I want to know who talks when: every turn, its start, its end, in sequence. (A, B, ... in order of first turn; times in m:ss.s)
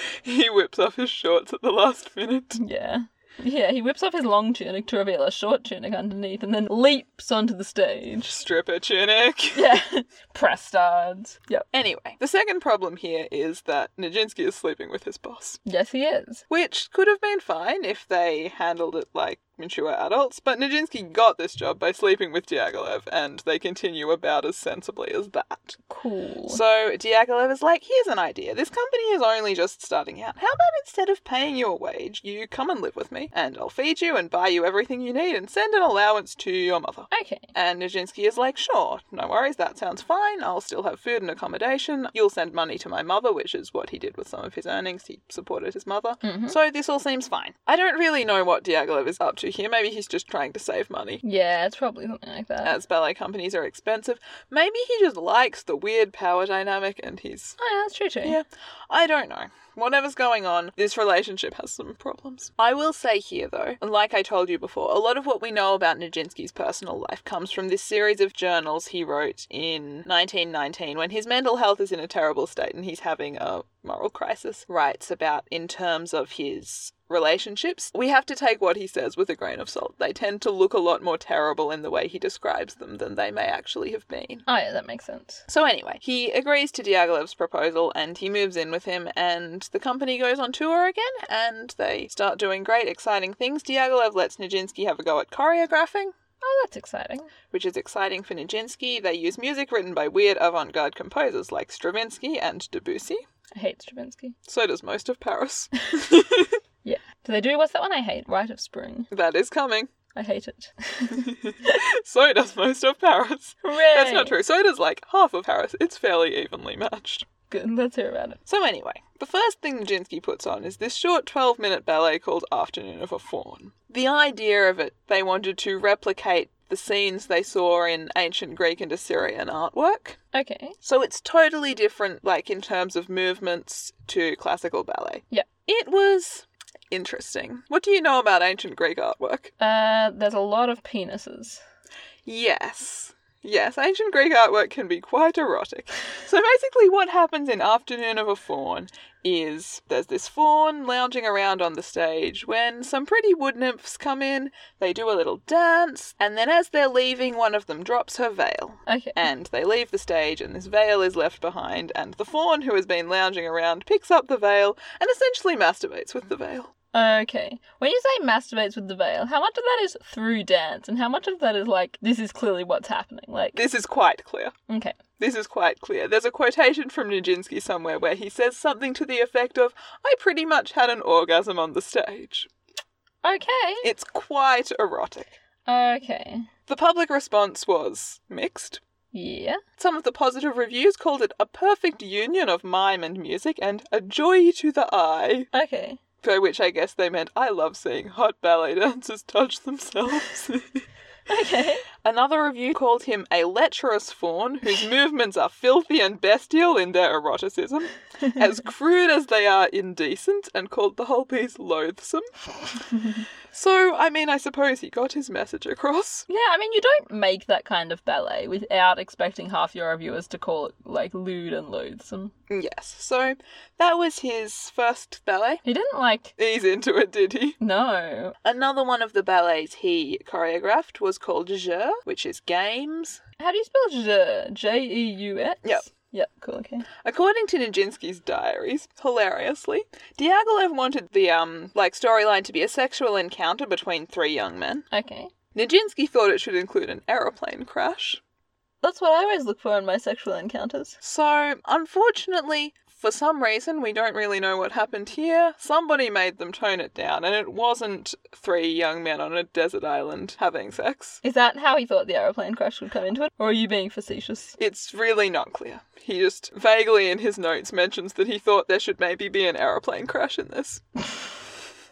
0:00.2-0:02.6 A
0:02.6-0:08.3 B
0:08.2-0:09.8 A
0:09.5-0:11.7 B
0:11.7-0:15.6 A
0:15.6-0:16.4 B
0:16.5-0:25.8 A
0:25.9-0:26.6 B
0:26.5-0:51.2 A
0:37.1-0:37.5 B
0:46.2-0:46.6 B
0:51.2-0:52.8 B
0:52.6-0:57.6 A
0:57.6-0:58.4 B
0:58.2-1:24.4 A
1:24.5-1:25.4 B
1:25.5-1:36.1 A
1:36.4-1:37.3 B
1:37.5-1:43.2 A
1:43.6-1:44.4 B
1:44.5-1:46.6 A
1:46.8-1:49.1 B
1:49.1-1:49.9 A
1:50.1-1:51.8 B
1:51.1-1:57.3 A
1:53.6-1:54.4 B
1:57.5-1:58.4 B
1:58.5-2:10.2 A
2:10.3-2:10.8 B
2:10.8-2:19.5 A
2:19.6-2:21.6 B
2:22.3-2:46.7 A
2:38.9-2:39.2 B
2:46.9-2:53.6 B
2:53.6-2:54.5 A
2:54.7-2:55.0 B
2:55.2-3:02.5 A
3:03.2-3:03.9 B
3:03.8-3:05.4 A
3:05.7-3:06.5 B
3:06.7-3:08.8 A
3:09.1-3:09.6 B
3:09.8-3:15.5 A
3:15.5-3:16.0 B
3:16.2-3:20.8 A
3:21.3-3:21.8 B
3:22.0-3:32.3 A
3:33.0-3:36.3 A
3:36.3-3:42.3 B
3:42.5-3:45.6 A
3:45.6-3:46.3 B
3:46.4-3:47.6 A
3:47.6-3:48.4 B
3:48.4-3:53.2 A
3:53.4-3:56.9 B
3:57.0-4:04.9 A
4:04.9-4:05.3 B
4:05.5-4:08.2 A
4:08.8-4:11.0 B
4:11.0-4:21.2 A
4:21.2-4:24.6 B
4:24.6-4:30.8 A